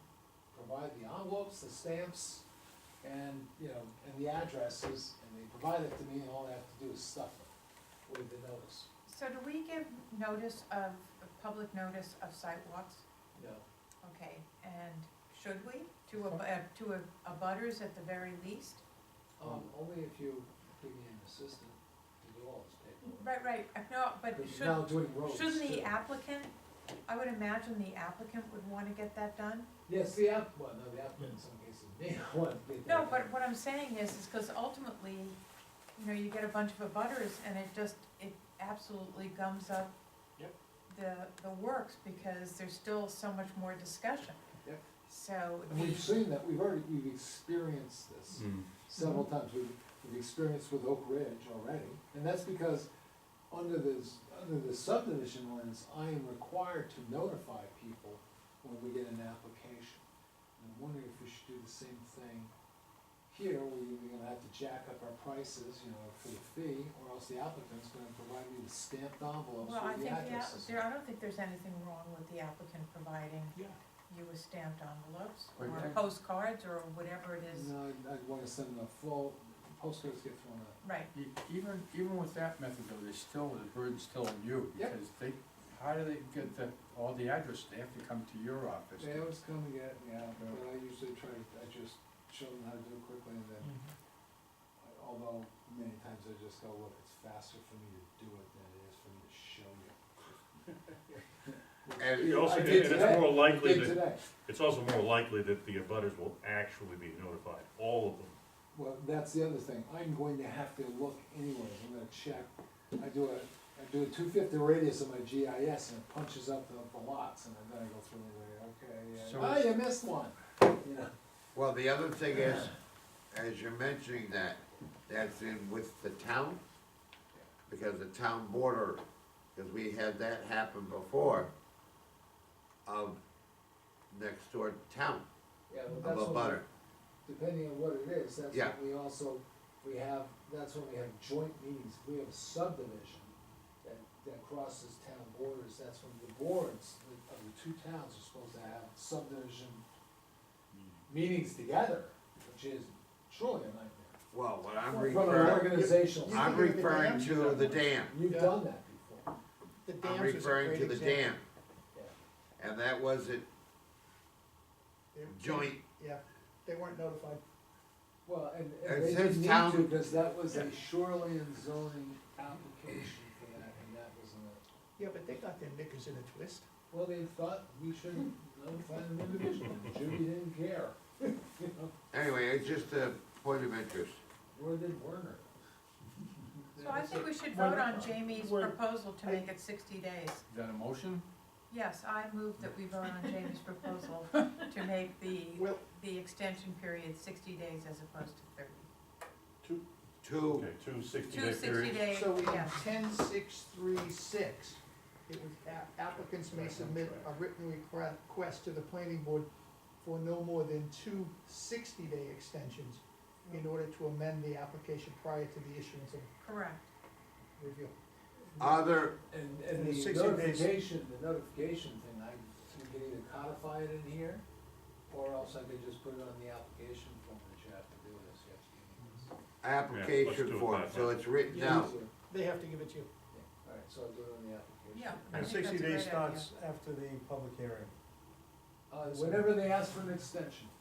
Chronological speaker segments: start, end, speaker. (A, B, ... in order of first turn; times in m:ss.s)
0:00.5-0:02.4 A
0:03.0-0:07.5 A
0:08.1-0:08.9 A
0:09.1-0:13.0 B
0:13.4-0:13.6 A
0:14.0-0:18.8 B
0:16.1-0:16.4 A
0:19.4-0:23.3 A
0:23.0-0:26.5 B
0:24.3-0:25.9 A
0:27.1-0:29.7 B
0:29.9-0:33.3 A
0:32.8-0:35.4 B
0:36.0-0:39.9 B
0:40.9-0:44.4 B
0:45.1-0:46.1 B
0:45.7-0:52.9 A
0:48.4-0:48.7 C
0:53.5-1:00.0 A
1:00.6-1:02.5 A
1:03.3-1:10.8 A
1:09.6-1:13.6 B
1:14.1-1:17.7 B
1:15.6-1:16.0 D
1:15.7-1:16.0 A
1:17.5-1:20.8 A
1:20.8-1:21.1 B
1:21.1-1:29.3 D
1:29.0-1:33.8 A
1:34.8-1:40.0 A
1:41.8-1:44.2 A
1:42.0-1:43.0 E
1:42.1-1:48.4 C
1:48.7-2:01.1 A
1:59.2-1:59.7 D
2:01.6-2:02.7 E
2:03.3-2:06.6 E
2:07.7-2:09.0 E
2:09.5-2:11.5 E
2:12.8-2:13.2 E
2:14.1-2:15.2 E
2:15.7-2:16.6 A
2:15.9-2:16.6 E
2:17.3-2:29.8 A
2:31.1-2:34.2 A
2:34.3-2:38.1 E
2:34.9-2:37.6 F
2:35.0-2:36.6 A
2:38.1-2:39.3 A
2:38.3-2:38.6 F
2:39.8-2:41.2 F
2:40.0-2:41.4 E
2:42.6-2:43.5 E
2:45.1-2:47.4 F
2:45.3-2:45.8 E
2:48.2-2:54.6 A
2:48.8-2:50.0 E
2:55.0-2:56.7 F
2:56.9-3:01.9 A
3:02.1-3:04.2 E
3:04.5-3:05.5 A
3:06.7-3:08.1 A
3:06.8-3:10.4 B
3:07.5-3:09.4 F
3:10.5-3:11.2 D
3:11.7-3:18.9 B
3:20.2-3:20.7 E
3:20.5-3:21.9 C
3:21.3-3:22.8 B
3:22.1-3:29.5 F
3:26.5-3:27.2 C
3:30.0-3:36.3 F
3:36.4-3:36.9 B
3:37.6-3:37.9 F
3:38.6-3:39.2 E
3:38.7-3:44.4 A
3:39.7-3:40.7 F
3:45.1-3:49.3 A
3:49.6-3:51.9 E
3:49.9-3:51.1 C
3:51.4-3:52.1 A
3:51.6-3:53.1 F
3:53.3-3:55.6 A
3:54.9-3:56.6 B
3:55.3-3:57.9 G
3:58.9-4:00.7 A
3:59.1-3:59.4 G